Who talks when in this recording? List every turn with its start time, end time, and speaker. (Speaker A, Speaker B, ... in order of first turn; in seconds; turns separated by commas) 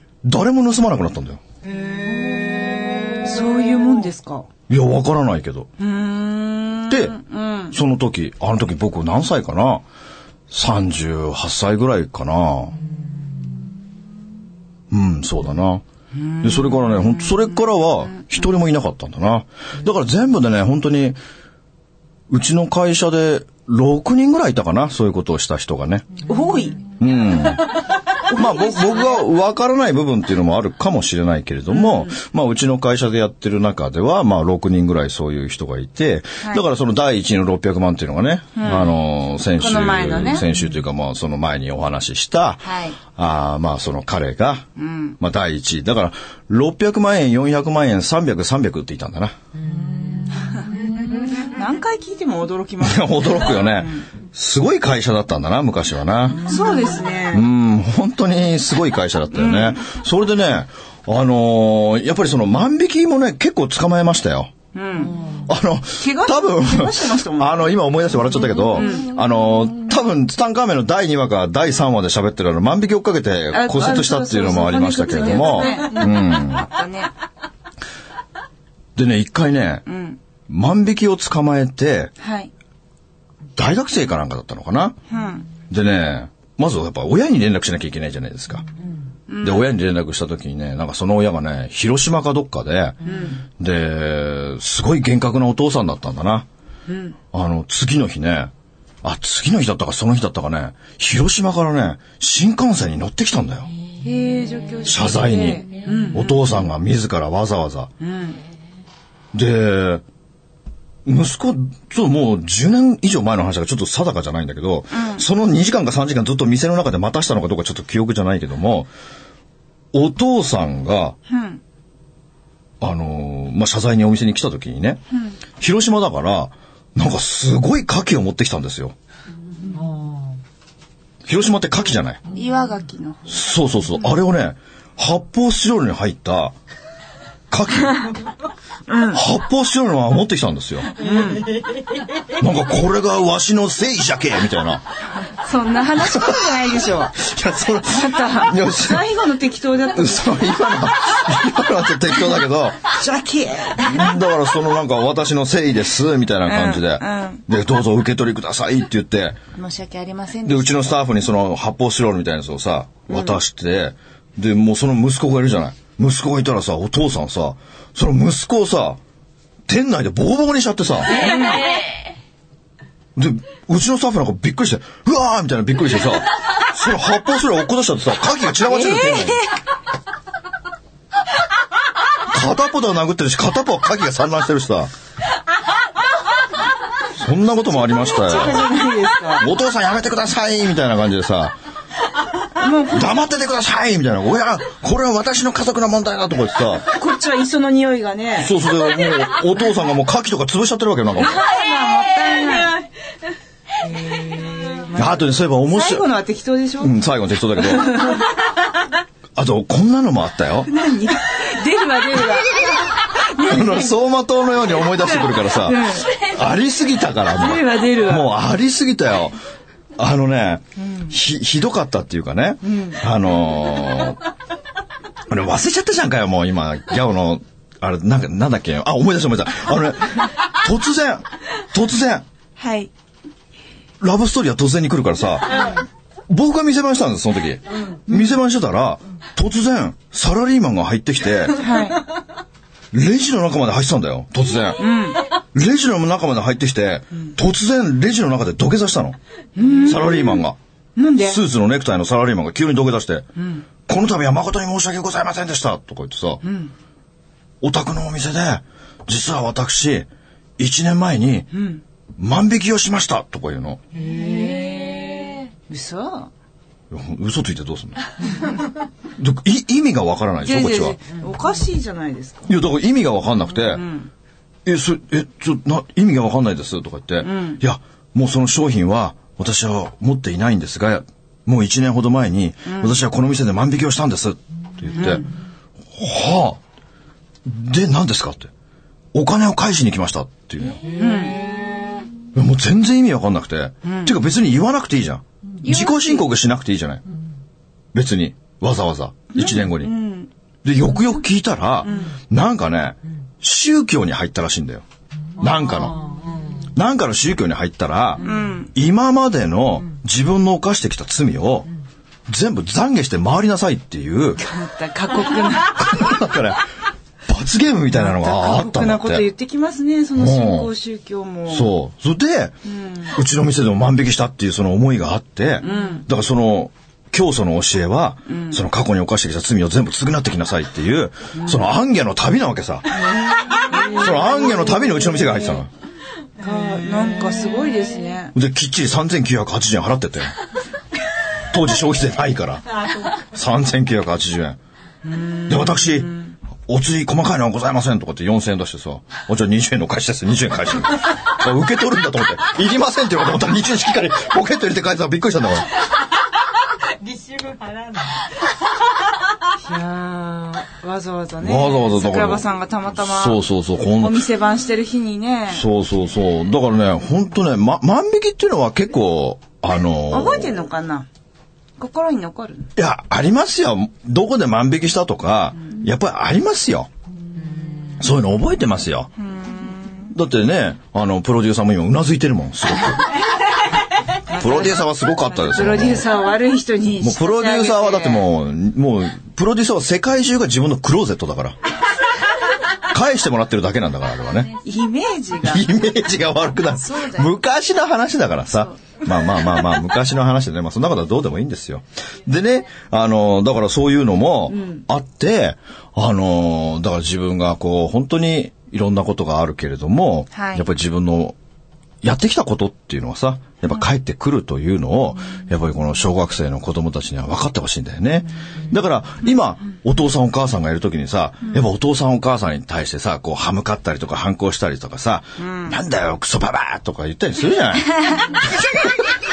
Speaker A: 0.2-1.4, Speaker B: 3.2-4.5, Speaker A: 4.7-5.7, Speaker B: 5.8-7.8, Speaker A: 6.9-7.2, Speaker A: 7.7-9.8, Speaker A: 10.5-12.8, Speaker A: 14.9-15.8, Speaker B: 16.1-18.2, Speaker A: 16.4-21.2, Speaker A: 22.3-26.1, Speaker B: 26.2-26.8, Speaker A: 27.0-27.7, Speaker A: 28.3-44.6, Speaker B: 28.3-29.1, Speaker B: 31.7-32.1, Speaker B: 38.5-38.9, Speaker B: 39.5-40.5, Speaker B: 42.6-43.0, Speaker B: 44.8-45.2, Speaker A: 45.2-49.3, Speaker B: 50.4-54.0, Speaker A: 52.8-56.5, Speaker B: 56.4-57.5, Speaker A: 57.3-64.5, Speaker B: 59.3-59.8, Speaker B: 64.7-65.2, Speaker A: 65.5-76.7, Speaker B: 66.0-67.7, Speaker B: 68.7-69.0, Speaker B: 73.5-77.1, Speaker A: 79.0-79.8, Speaker B: 79.8-80.2, Speaker A: 80.5-82.1, Speaker B: 82.2-82.5, Speaker A: 83.5-85.0, Speaker B: 85.1-85.5, Speaker A: 85.6-88.7, Speaker B: 89.3-89.7, Speaker A: 89.4-93.0, Speaker B: 93.0-93.5, Speaker A: 93.6-96.5, Speaker B: 96.9-97.2, Speaker A: 97.3-98.5, Speaker A: 99.0-103.7, Speaker B: 104.0-106.3, Speaker A: 104.8-107.9, Speaker B: 108.0-108.4, Speaker A: 109.3-110.0, Speaker A: 111.0-118.9, Speaker B: 114.9-115.2, Speaker A: 119.9-121.2, Speaker B: 121.3-121.6, Speaker A: 122.8-125.0, Speaker B: 125.1-125.4, Speaker A: 125.6-128.9, Speaker A: 131.2-132.2, Speaker B: 132.3-133.4, Speaker A: 133.3-136.5, Speaker A: 137.5-138.1, Speaker B: 138.9-139.2, Speaker A: 139.1-140.9, Speaker B: 140.9-141.6, Speaker A: 142.3-144.8, Speaker B: 145.2-147.2, Speaker A: 146.0-149.1, Speaker B: 147.8-150.5, Speaker A: 149.9-152.9, Speaker B: 152.9-154.1, Speaker A: 153.8-159.4, Speaker B: 156.5-157.4, Speaker B: 159.5-160.8, Speaker A: 160.4-169.0, Speaker B: 163.1-163.4, Speaker A: 169.7-171.3, Speaker B: 171.2-171.7, Speaker A: 173.2-179.4, Speaker B: 178.7-179.5, Speaker A: 182.3-184.9, Speaker A: 187.1-188.7, Speaker B: 187.9-189.4, Speaker A: 189.4-191.5, Speaker B: 192.6-193.1, Speaker A: 192.9-196.9, Speaker B: 196.9-198.5, Speaker A: 198.4-201.4, Speaker B: 201.2-202.8, Speaker B: 203.8-206.9, Speaker A: 204.9-206.1, Speaker A: 206.8-208.2, Speaker B: 207.6-208.4, Speaker A: 209.3-210.7, Speaker B: 210.7-213.9, Speaker A: 213.3-219.4, Speaker B: 214.9-216.2, Speaker B: 217.3-218.3, Speaker A: 219.9-224.2, Speaker B: 222.6-223.0, Speaker A: 225.3-232.2, Speaker B: 232.6-232.9, Speaker A: 234.0-235.8, Speaker A: 236.3-241.7, Speaker B: 241.6-242.0, Speaker A: 242.9-249.2, Speaker B: 244.8-245.3, Speaker B: 249.6-250.4, Speaker A: 249.8-250.6, Speaker B: 250.9-251.4, Speaker A: 251.2-253.3, Speaker B: 253.3-253.6, Speaker A: 253.9-256.4, Speaker B: 256.4-256.7, Speaker A: 257.6-260.1, Speaker A: 260.6-261.5, Speaker B: 261.5-261.8, Speaker A: 262.2-263.8, Speaker B: 264.2-264.9, Speaker B: 265.7-266.3, Speaker A: 266.9-268.0, Speaker A: 269.1-271.0, Speaker B: 270.4-272.5, Speaker A: 272.5-273.8, Speaker B: 273.7-274.1, Speaker A: 274.6-285.2, Speaker B: 277.2-277.6, Speaker B: 282.6-283.0, Speaker B: 284.9-285.3, Speaker A: 285.9-286.6, Speaker A: 287.4-288.5, Speaker A: 289.1-290.8, Speaker B: 291.0-291.5, Speaker A: 292.3-297.0, Speaker B: 293.8-294.2, Speaker B: 295.6-296.3, Speaker A: 297.9-299.9, Speaker B: 299.3-300.3, Speaker A: 300.6-304.8, Speaker B: 301.8-302.1, Speaker A: 305.4-306.1, Speaker A: 306.7-311.7, Speaker B: 308.2-308.7, Speaker A: 312.3-314.4, Speaker B: 314.4-316.0, Speaker A: 315.7-316.6, Speaker A: 317.2-319.2, Speaker B: 317.9-321.7, Speaker A: 320.1-320.7, Speaker A: 321.5-322.6, Speaker B: 322.6-323.2, Speaker A: 323.1-333.1, Speaker B: 325.6-326.0, Speaker B: 328.3-328.6, Speaker B: 331.3-331.7, Speaker B: 333.1-334.7, Speaker A: 333.7-335.7, Speaker B: 336.4-338.3, Speaker A: 338.3-340.3, Speaker A: 341.5-344.6, Speaker B: 345.0-346.3, Speaker A: 345.5-355.7, Speaker B: 359.6-363.4, Speaker A: 361.4-364.2, Speaker B: 364.0-365.6, Speaker A: 365.5-370.6, Speaker B: 370.1-371.1, Speaker B: 371.8-372.7, Speaker A: 372.8-376.9, Speaker A: 378.0-379.1, Speaker B: 379.2-380.1, Speaker A: 380.1-383.1, Speaker B: 384.3-388.2, Speaker A: 384.4-386.1, Speaker A: 387.0-391.6, Speaker A: 392.8-394.5, Speaker B: 394.6-395.7, Speaker A: 395.4-411.4, Speaker B: 396.7-397.3, Speaker B: 398.5-398.9, Speaker B: 404.5-404.8, Speaker B: 410.3-410.6, Speaker A: 412.0-429.1, Speaker B: 425.4-425.8, Speaker B: 428.0-428.3